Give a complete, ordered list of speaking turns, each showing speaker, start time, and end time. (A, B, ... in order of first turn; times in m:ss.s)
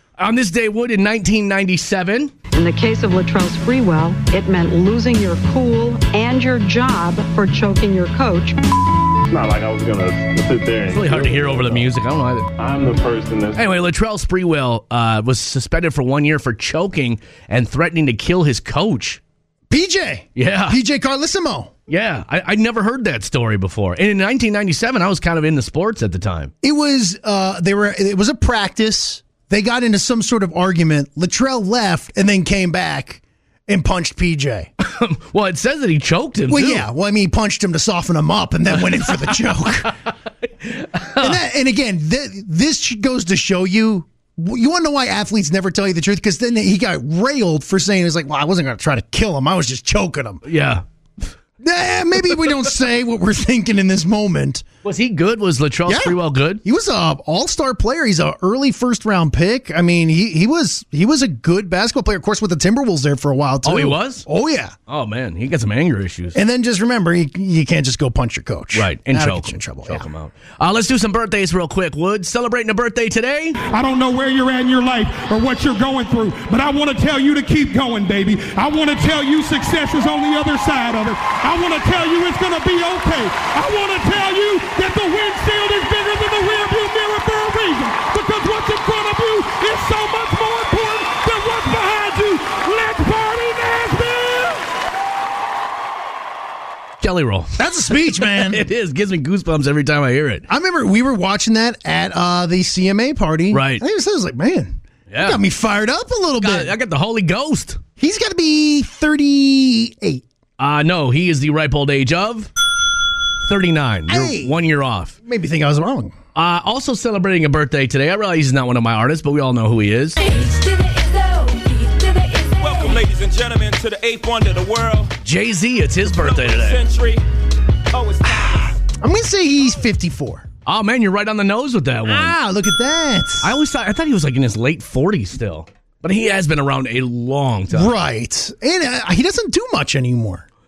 0:00.2-0:02.3 A
0:02.5-0:08.6 B
0:09.3-0:11.9 C
0:10.9-0:12.5 A
0:12.6-0:13.7 C
0:13.6-0:19.2 A
0:19.7-0:21.7 D
0:20.4-0:20.8 A
0:21.9-0:26.5 A
0:26.6-0:34.7 D
0:34.8-0:36.9 A
0:36.5-0:39.9 D
0:40.6-0:41.4 A
0:41.2-0:50.4 D
0:50.4-0:50.8 A
0:51.6-0:54.6 D
0:54.8-0:56.6 A
0:55.9-1:04.7 D
1:03.6-1:04.3 A
1:04.9-1:06.4 A
1:06.3-1:10.1 D
1:08.7-1:13.6 A
1:13.6-1:34.7 E
1:37.0-1:40.5 A
1:37.6-1:38.6 D
1:40.5-1:46.8 D
1:43.5-1:43.8 A
1:45.1-1:45.4 A
1:46.4-1:47.8 A
1:48.0-1:50.2 D
1:50.6-1:52.5 A
1:53.5-1:55.1 A
1:54.1-1:54.6 D
1:55.2-1:56.1 D
1:56.4-2:00.2 A
2:02.5-2:05.1 F
2:05.2-2:06.8 A
2:06.0-2:07.2 F
2:07.9-2:08.7 F
2:08.2-2:10.5 D
2:10.7-2:12.4 A
2:12.0-2:13.5 D
2:13.4-2:17.9 A
2:17.7-2:20.4 D